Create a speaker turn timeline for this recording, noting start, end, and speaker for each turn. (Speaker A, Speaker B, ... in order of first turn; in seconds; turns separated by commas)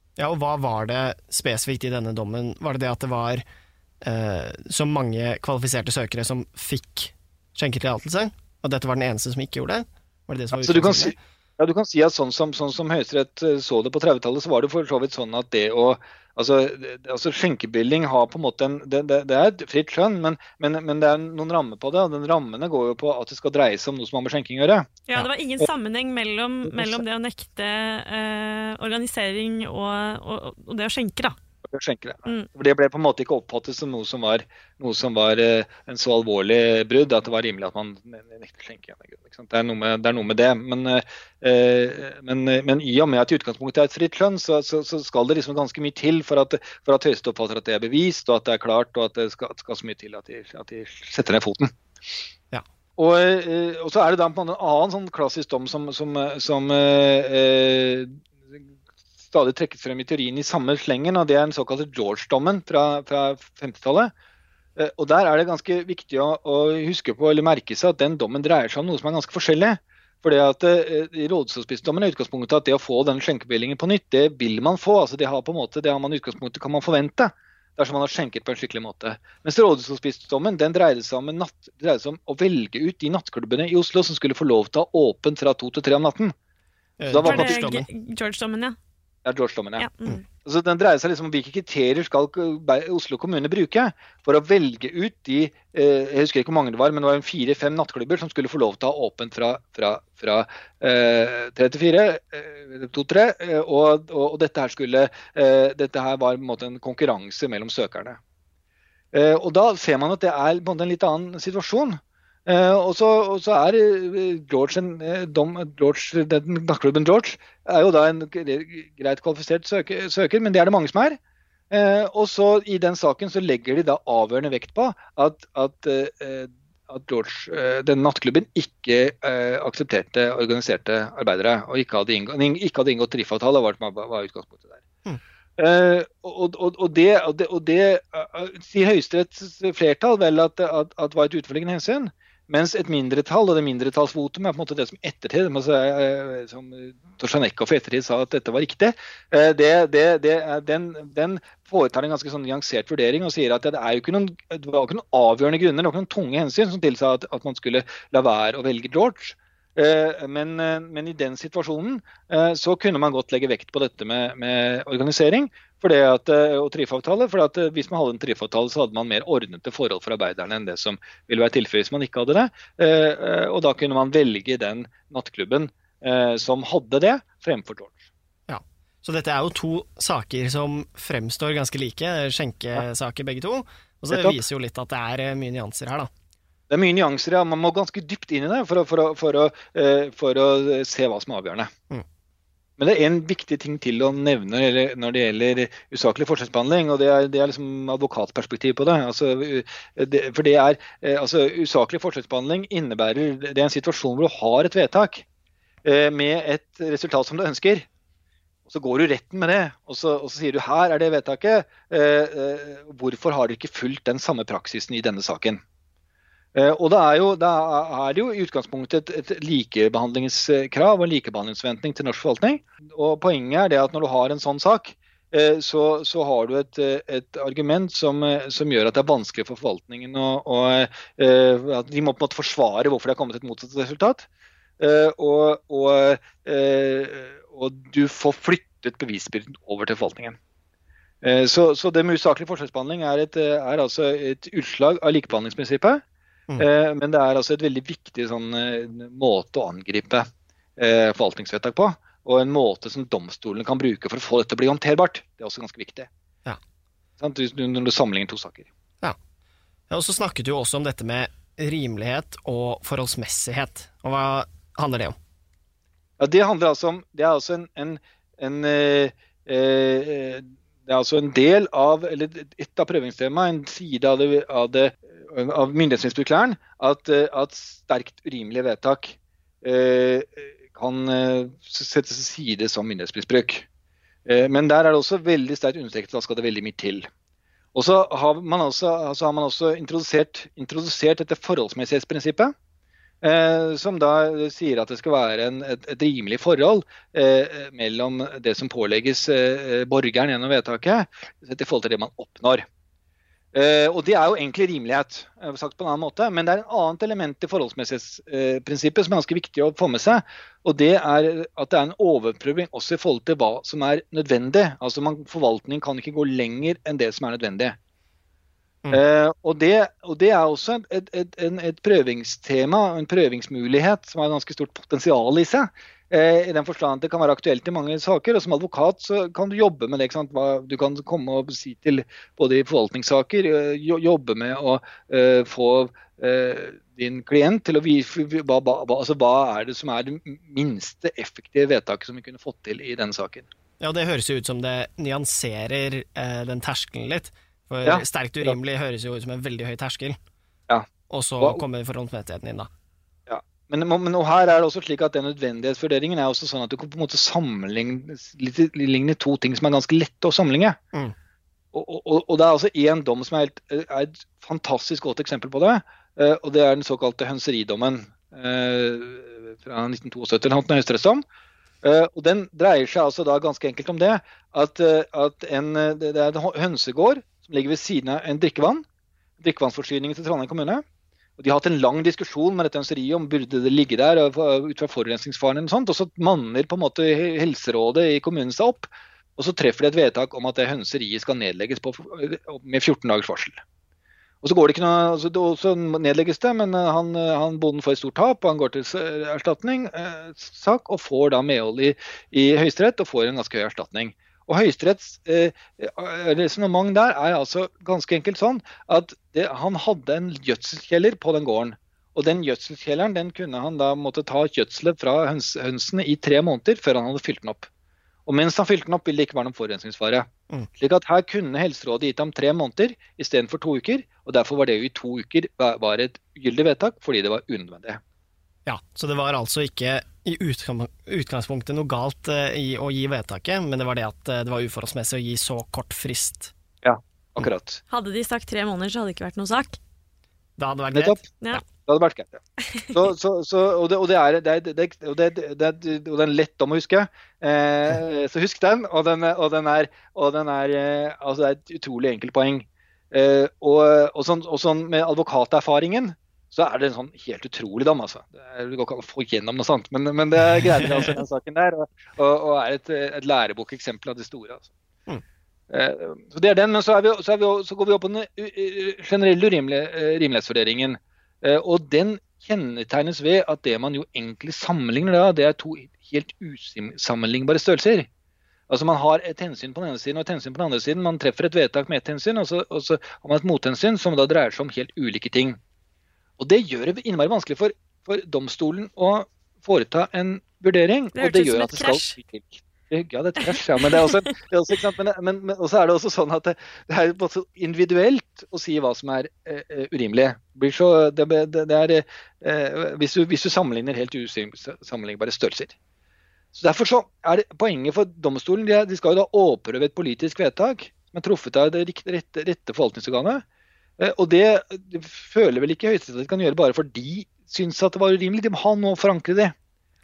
Speaker A: 0.2-3.4, Speaker A: 4.0-11.2, Speaker B: 10.6-25.0, Speaker C: 25.1-31.4, Speaker B: 26.7-27.0, Speaker B: 31.7-51.7, Speaker B: 53.0-58.6, Speaker B: 59.3-64.1, Speaker B: 64.8-86.3, Speaker A: 87.0-87.9, Speaker B: 87.1-87.6, Speaker C: 87.2-88.8, Speaker B: 89.2-89.9, Speaker C: 89.8-90.2, Speaker B: 90.4-108.2, Speaker B: 109.1-121.2, Speaker B: 121.7-134.8, Speaker B: 135.6-178.1, Speaker A: 178.5-186.1, Speaker B: 184.1-184.4, Speaker B: 186.7-191.7, Speaker B: 192.8-205.2, Speaker B: 205.8-207.9, Speaker B: 208.7-215.6, Speaker B: 216.6-234.3, Speaker B: 234.8-240.4, Speaker B: 241.2-246.0, Speaker B: 246.6-250.3, Speaker B: 250.8-256.1, Speaker B: 257.2-258.7, Speaker A: 259.9-265.1, Speaker B: 266.2-283.7, Speaker B: 284.3-287.1, Speaker B: 287.7-292.5, Speaker B: 293.2-302.6, Speaker B: 303.5-317.8, Speaker B: 318.9-343.5, Speaker A: 343.8-350.2, Speaker B: 347.8-348.6, Speaker A: 351.1-352.7, Speaker B: 353.3-360.8, Speaker B: 361.7-371.2, Speaker B: 371.8-378.8, Speaker B: 379.4-380.8, Speaker B: 381.4-393.6, Speaker B: 394.4-417.7, Speaker B: 418.3-428.0, Speaker A: 428.7-436.5, Speaker B: 436.8-437.8, Speaker C: 437.9-439.8, Speaker A: 440.6-441.6, Speaker B: 440.9-441.2, Speaker B: 441.9-464.7, Speaker A: 460.7-461.2, Speaker B: 465.7-478.1, Speaker B: 478.7-485.6, Speaker B: 486.4-505.8, Speaker C: 491.1-492.1, Speaker C: 493.9-494.2, Speaker B: 506.5-513.4, Speaker B: 514.0-519.5